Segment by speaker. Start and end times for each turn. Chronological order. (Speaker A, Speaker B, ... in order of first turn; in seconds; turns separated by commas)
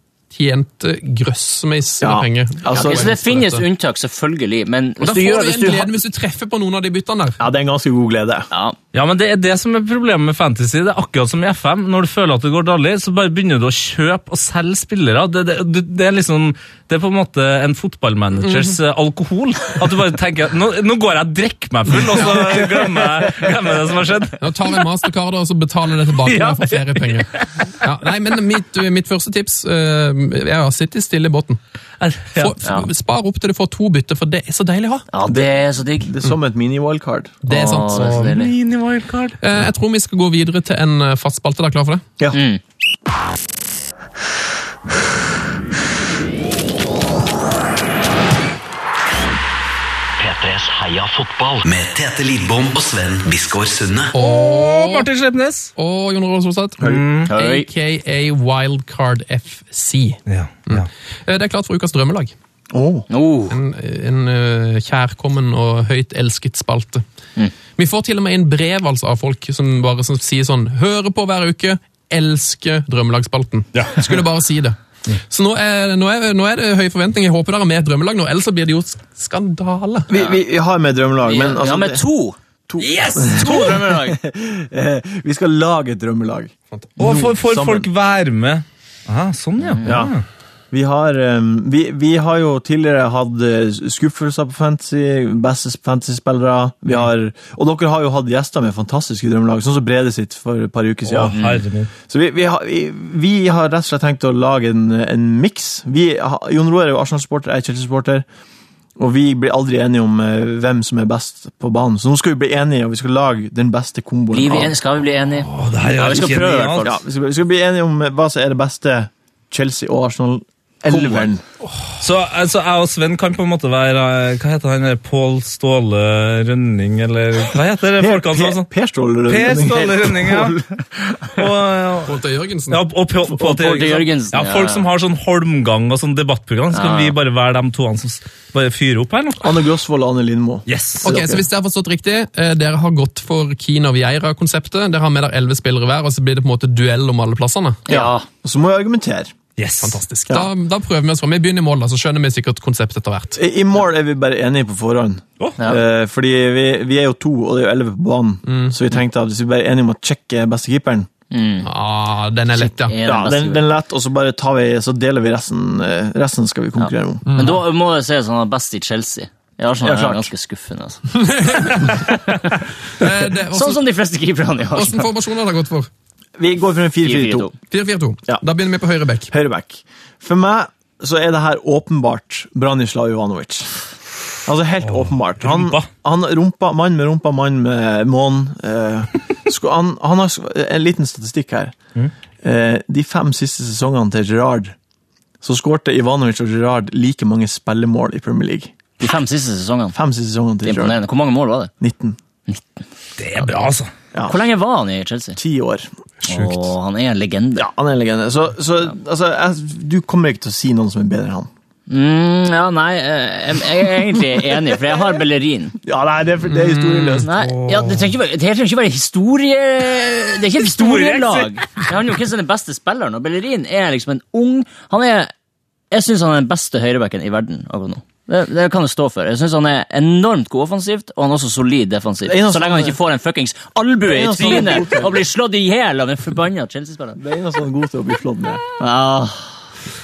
Speaker A: 0.3-3.6, Speaker B: 2.0-3.2, Speaker C: 2.7-5.9, Speaker A: 5.0-7.4, Speaker B: 7.4-8.5, Speaker C: 8.5-8.8, Speaker D: 8.9-24.8, Speaker A: 18.4-18.8, Speaker A: 24.4-31.6, Speaker D: 26.1-27.7, Speaker D: 32.0-32.6, Speaker A: 32.4-35.1, Speaker C: 35.1-36.1, Speaker B: 35.3-37.4, Speaker A: 37.4-38.3, Speaker C: 37.5-38.5, Speaker D: 37.9-39.4, Speaker A: 39.4-42.1, Speaker C: 42.3-42.6, Speaker E: 50.2-54.1, Speaker A: 54.1-55.1, Speaker D: 54.2-55.7, Speaker A: 55.8-62.3, Speaker B: 56.8-57.1, Speaker D: 56.8-57.3, Speaker C: 57.3-57.7, Speaker D: 60.3-60.9, Speaker B: 62.7-63.1, Speaker C: 63.1-63.6, Speaker A: 63.5-67.0, Speaker A: 67.8-80.1, Speaker D: 73.8-74.1, Speaker B: 80.1-82.0, Speaker C: 81.2-82.4, Speaker B: 82.7-87.9, Speaker D: 82.8-83.3, Speaker C: 83.2-84.2, Speaker D: 87.0-90.2, Speaker C: 89.6-90.0, Speaker B: 89.8-90.1, Speaker B: 90.7-101.4, Speaker D: 101.1-101.9, Speaker C: 101.3-101.6, Speaker B: 102.1-108.3, Speaker B: 109.0-114.7, Speaker C: 114.3-117.0, Speaker D: 115.5-116.9, Speaker B: 116.8-121.4, Speaker C: 120.9-121.3, Speaker D: 122.0-128.7, Speaker B: 128.0-130.7, Speaker D: 129.3-130.6, Speaker D: 131.3-132.2, Speaker A: 132.1-132.8, Speaker D: 132.7-139.6, Speaker C: 133.3-134.8, Speaker C: 136.7-137.2, Speaker B: 139.4-141.4, Speaker D: 140.7-141.2, Speaker A: 141.0-147.8, Speaker C: 147.9-148.3, Speaker B: 147.9-149.3, Speaker D: 149.6-150.0, Speaker A: 149.8-153.4, Speaker B: 153.3-161.1, Speaker A: 158.5-158.8, Speaker C: 161.3-161.7, Speaker A: 161.6-163.0, Speaker C: 162.6-163.7, Speaker B: 163.0-167.3, Speaker C: 166.8-171.0, Speaker A: 167.3-167.6, Speaker B: 169.8-170.3, Speaker A: 171.2-172.1, Speaker C: 171.8-172.5, Speaker A: 173.0-173.8, Speaker C: 173.5-175.1, Speaker A: 174.7-175.9, Speaker B: 176.4-177.5, Speaker C: 177.0-177.6, Speaker A: 177.7-179.3, Speaker B: 179.3-183.8, Speaker B: 184.4-191.8, Speaker D: 184.8-185.9, Speaker B: 192.4-194.8, Speaker B: 195.4-198.7, Speaker C: 199.0-200.0, Speaker B: 199.9-201.0, Speaker C: 200.6-201.7, Speaker B: 201.8-202.2, Speaker D: 203.2-203.9, Speaker B: 204.1-204.4, Speaker C: 204.3-205.4, Speaker B: 205.4-205.9, Speaker C: 206.2-207.7, Speaker B: 207.6-211.5, Speaker C: 211.9-215.8, Speaker B: 215.8-217.3, Speaker A: 216.5-217.2, Speaker C: 217.2-225.3, Speaker D: 217.4-218.1, Speaker D: 220.6-221.8, Speaker C: 225.9-237.2, Speaker B: 232.2-233.0, Speaker B: 234.1-235.2, Speaker B: 237.2-238.6, Speaker C: 238.8-239.5